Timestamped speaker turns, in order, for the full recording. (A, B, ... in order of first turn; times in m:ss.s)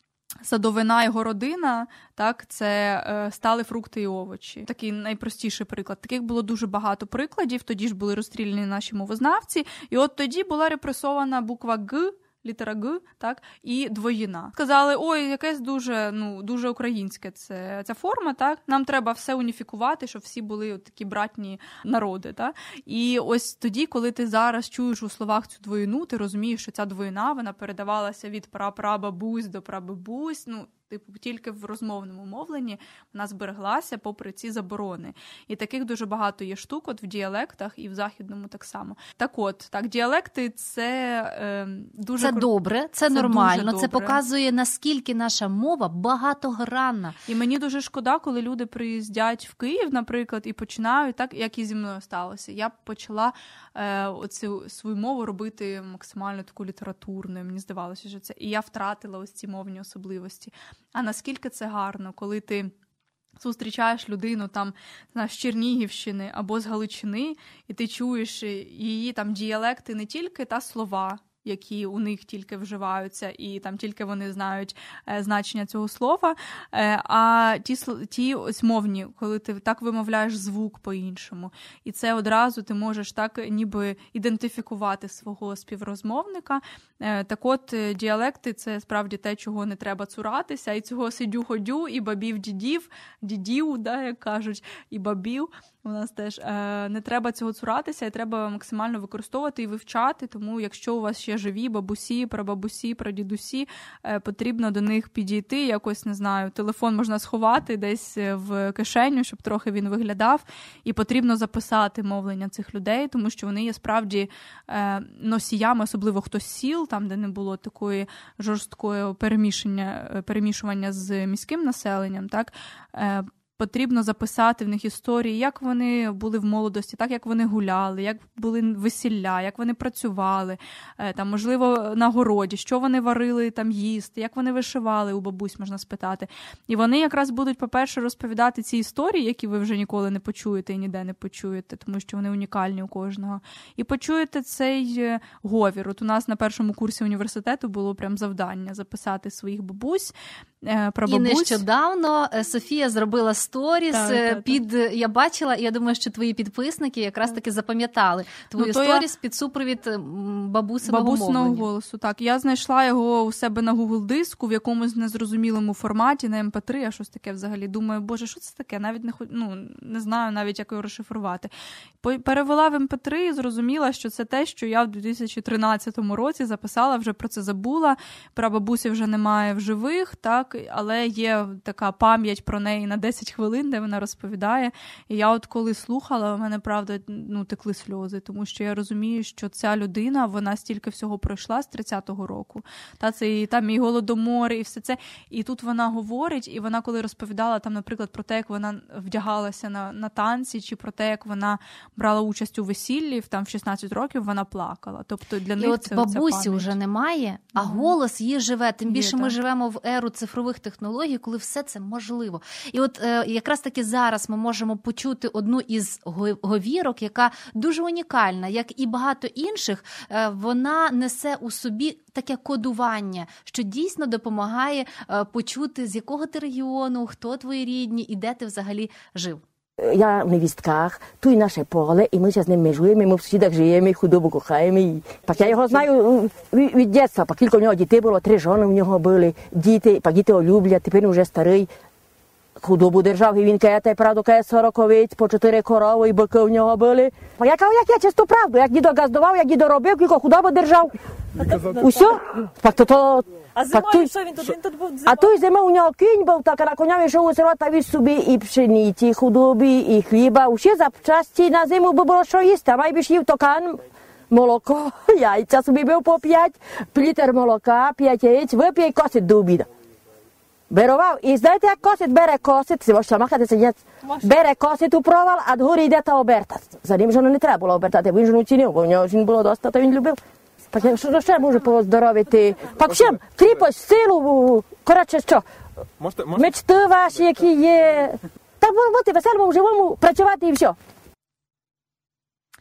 0:00.4-0:42.5 A
0:42.2-0:47.2 B
0:43.1-0:44.2 A
0:47.2-1:02.7 A
1:03.4-2:31.6 A
2:31.1-2:41.6 B
2:33.9-2:34.6 A
2:38.6-2:39.0 A
2:40.8-3:26.7 A
3:25.6-3:49.4 B
3:27.6-3:27.9 A
3:28.9-3:29.4 A
3:49.8-4:01.7 C
4:02.6-4:11.0 C
4:11.4-4:12.2 D
4:11.7-4:14.1 C
4:13.6-4:15.3 D
4:15.0-4:29.7 C
4:30.7-4:40.2 C
4:40.7-4:45.4 C
4:46.2-4:50.7 C